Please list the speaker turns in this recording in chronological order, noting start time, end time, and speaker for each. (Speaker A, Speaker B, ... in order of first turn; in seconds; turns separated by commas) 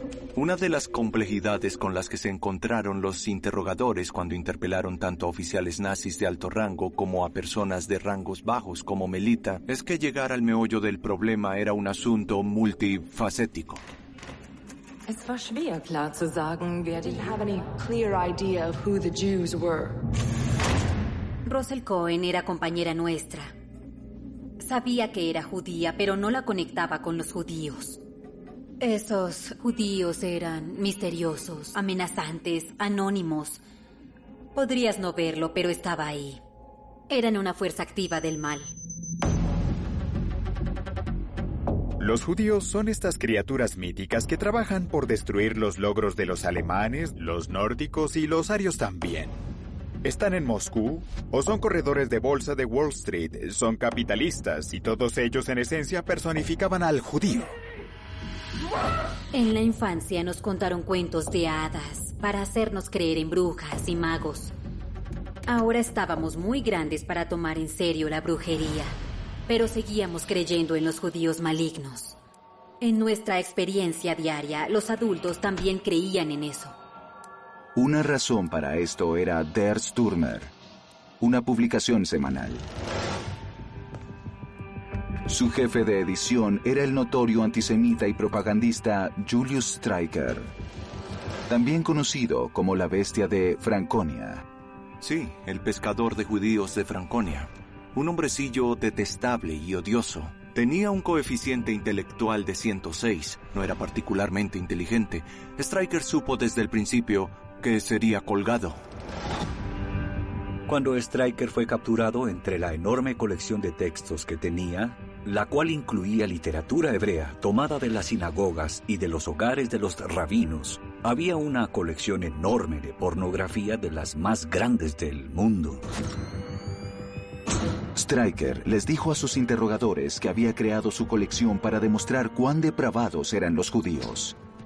Speaker A: 0.3-13.8, Speaker B: 15.1-20.1, Speaker C: 21.4-23.5, Speaker C: 24.6-28.0, Speaker C: 28.8-33.6, Speaker C: 34.5-36.4, Speaker C: 37.1-38.7, Speaker D: 42.0-49.4, Speaker D: 50.0-57.6, Speaker C: 59.3-64.5, Speaker C: 65.5-68.9, Speaker C: 69.5-72.2, Speaker C: 72.8-76.7, Speaker E: 77.7-80.5, Speaker E: 81.2-82.6, Speaker E: 85.2-90.5, Speaker E: 91.5-94.4, Speaker A: 95.0-108.8, Speaker F: 110.7-125.8, Speaker E: 127.9-134.4